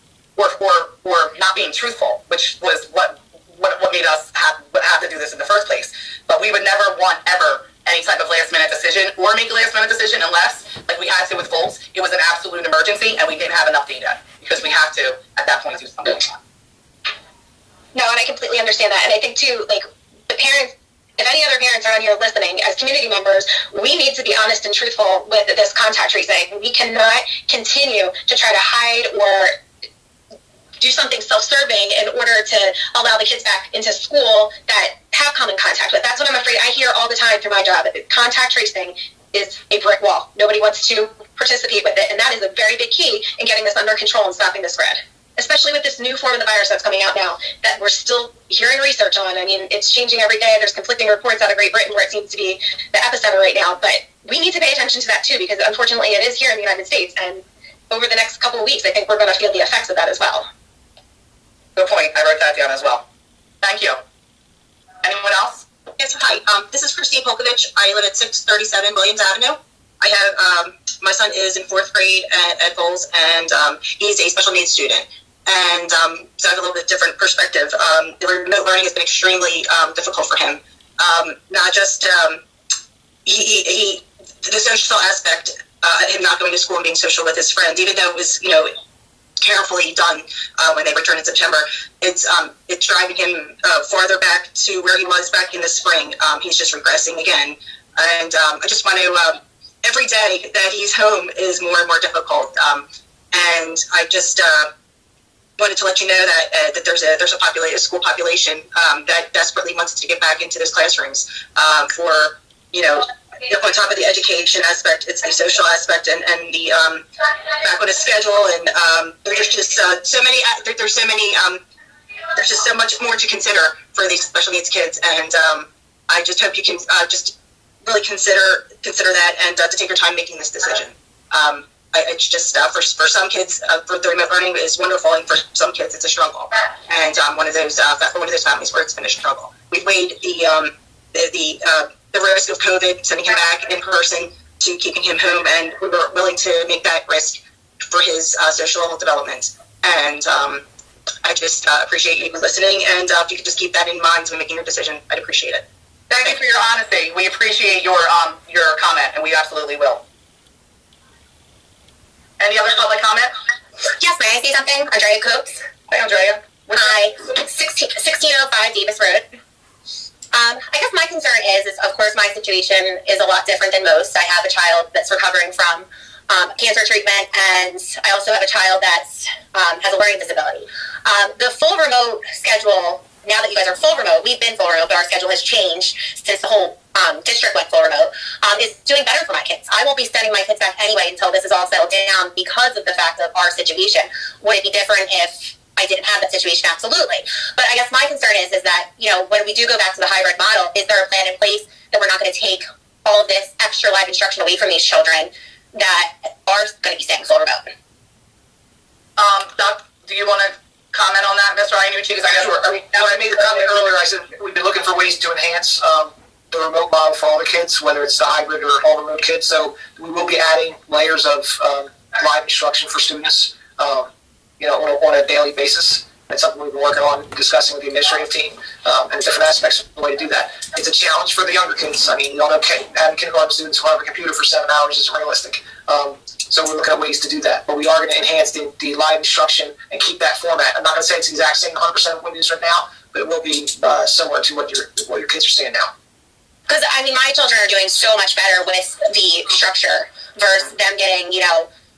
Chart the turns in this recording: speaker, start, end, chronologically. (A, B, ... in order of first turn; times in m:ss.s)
0:00.4-0:16.4 A
0:17.9-0:29.6 B
0:30.8-1:00.5 B
1:01.8-1:03.0 A
1:03.6-1:04.0 A
1:05.0-1:05.6 A
1:06.0-1:22.4 C
1:23.2-1:28.7 C
1:29.4-1:44.7 C
1:45.6-1:57.1 C
1:57.6-2:01.6 C
2:02.4-2:30.6 C
2:31.2-2:35.6 C
2:36.1-2:40.0 A
2:42.4-2:43.3 A
2:44.0-2:45.6 D
2:45.9-2:47.0 A
2:46.7-2:49.3 D
2:50.3-3:27.7 D
3:29.2-3:33.6 A
3:32.3-4:05.9 E
4:06.7-4:11.7 D